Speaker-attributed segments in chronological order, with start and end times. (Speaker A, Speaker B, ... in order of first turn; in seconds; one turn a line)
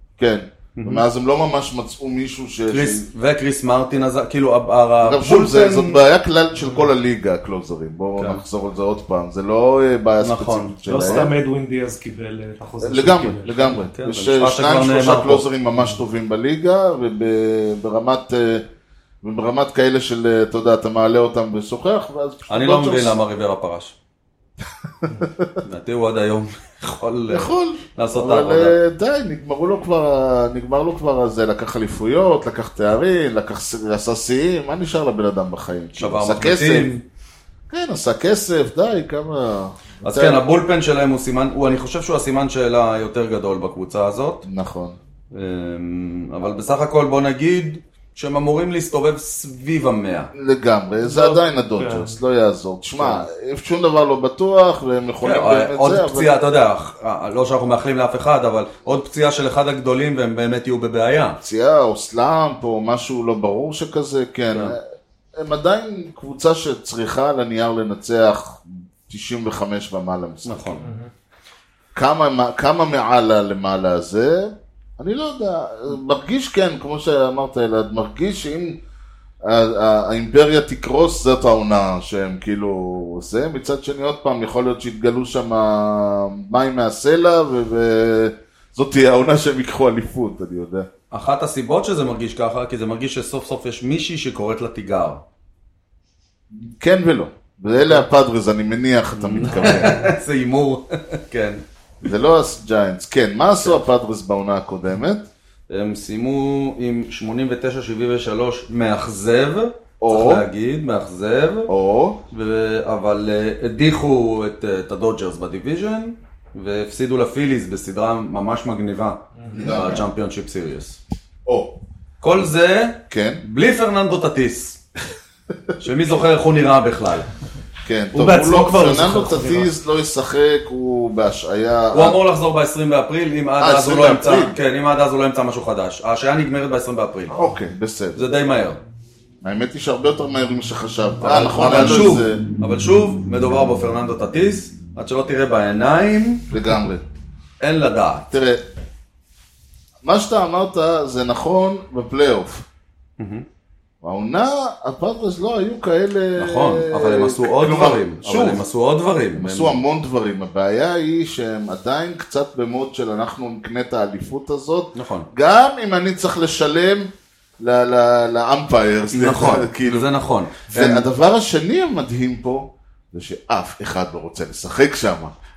Speaker A: 0.2-3.1
Speaker B: 0.8-1.0
Speaker B: 2.7-6.0
Speaker A: 5.0-11.3
Speaker B: 10.2-11.3
Speaker C: 10.9-13.8
Speaker A: 12.8-18.6
Speaker B: 14.0-15.4
Speaker A: 19.2-23.2
Speaker B: 22.5-23.9
Speaker A: 25.0-25.5
Speaker B: 25.6-28.8
Speaker A: 27.3-36.9
Speaker B: 36.0-37.0
Speaker A: 37.7-40.4
Speaker B: 40.0-44.5
Speaker A: 44.5-45.0
Speaker B: 45.3-50.3
Speaker A: 50.3-56.3
Speaker C: 51.0-52.2
Speaker B: 53.0-53.2
Speaker B: 55.2-61.4
Speaker A: 61.4-64.8
Speaker A: 65.4-70.8
Speaker B: 70.5-70.8
Speaker C: 70.8-71.1
Speaker A: 72.0-78.8
Speaker A: 79.4-90.9
Speaker B: 91.1-95.2
Speaker A: 96.5-100.1
Speaker B: 99.2-101.6
Speaker A: 102.0-105.3
Speaker B: 105.7-111.7
Speaker A: 110.0-110.5
Speaker A: 111.7-112.2
Speaker B: 112.3-121.0
Speaker A: 119.5-120.0
Speaker A: 121.5-121.8
Speaker B: 122.2-124.8
Speaker A: 123.1-123.4
Speaker B: 125.8-127.3
Speaker A: 127.8-132.2
Speaker C: 128.1-129.7
Speaker B: 131.9-137.3
Speaker A: 133.6-134.6
Speaker A: 137.4-138.2
Speaker B: 138.2-138.8
Speaker A: 139.4-142.4
Speaker B: 141.2-146.5
Speaker A: 146.5-147.0
Speaker B: 147.6-148.3
Speaker A: 148.3-148.6
Speaker A: 150.0-152.7
Speaker B: 153.2-153.4
Speaker A: 154.0-158.7
Speaker B: 156.4-159.8
Speaker A: 159.3-170.1
Speaker B: 164.9-165.3
Speaker B: 169.1-171.0
Speaker A: 170.7-175.3